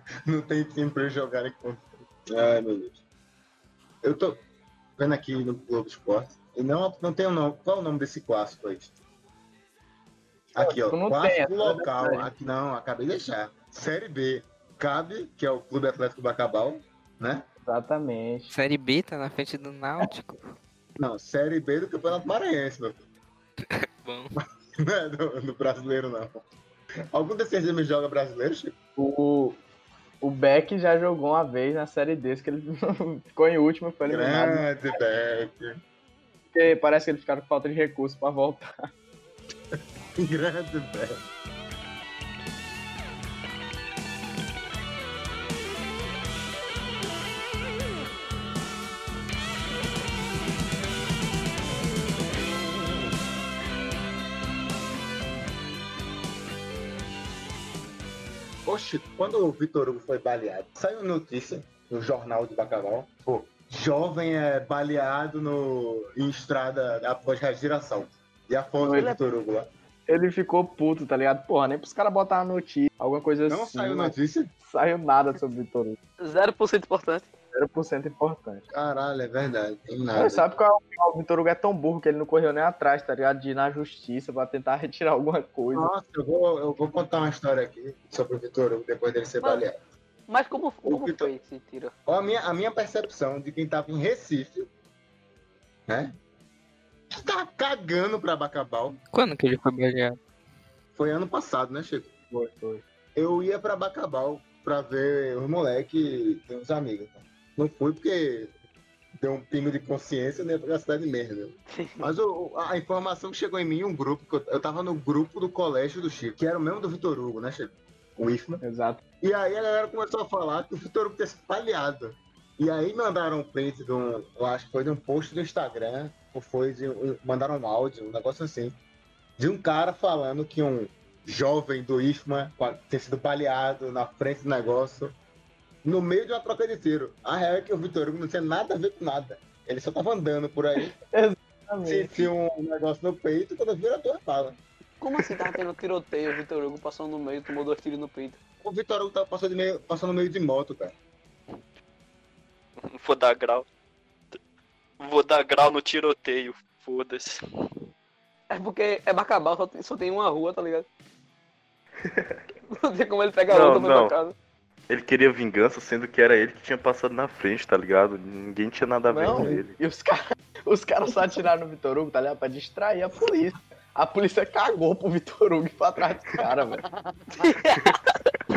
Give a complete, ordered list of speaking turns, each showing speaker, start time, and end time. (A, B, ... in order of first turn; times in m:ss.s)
0:00.2-0:03.0 A
0:04.0-0:04.4 A
0:05.0-0:08.9 A
0:10.5-0:17.4 A
0:10.6-0:12.3 B
0:17.6-0:18.5 B
0:18.5-0:20.5 C
0:21.0-0:23.0 A
0:24.0-0:24.3 C
0:24.8-0:26.4 A
0:27.1-0:28.7 A
0:29.0-0:29.6 B
0:30.2-0:34.7 B
0:34.0-0:35.7 A
0:36.5-0:38.8 B
0:40.2-0:41.2 A
0:58.6-1:09.7 A
1:08.8-1:09.2 B
1:10.1-1:16.0 B
1:13.5-1:14.5 A
1:16.2-1:17.3 D
1:17.5-1:18.6 B
1:18.7-1:20.4 A
1:20.1-1:25.9 B
1:25.7-1:29.8 A
1:30.3-1:31.9 D
1:30.8-1:31.3 A
1:32.0-1:34.7 A
1:37.2-1:39.0 A
1:39.1-1:40.2 C
1:41.0-1:42.1 A
1:42.3-1:42.8 B
1:43.2-1:48.5 A
1:49.2-1:58.6 A
1:58.6-1:59.0 B
1:59.2-2:08.7 A
2:09.4-2:15.1 A
2:15.8-2:21.0 A
2:20.8-2:22.3 B
2:21.8-2:24.6 A
2:25.0-2:28.4 D
2:28.6-2:31.0 A
2:32.8-2:33.7 E
2:35.0-2:37.4 E
2:38.5-2:40.9 D
2:42.0-2:42.4 F
2:42.7-2:44.3 D
2:43.5-2:44.2 F
2:44.9-2:49.8 F
2:49.1-2:56.8 B
2:56.8-2:57.1 A
2:57.4-2:58.1 D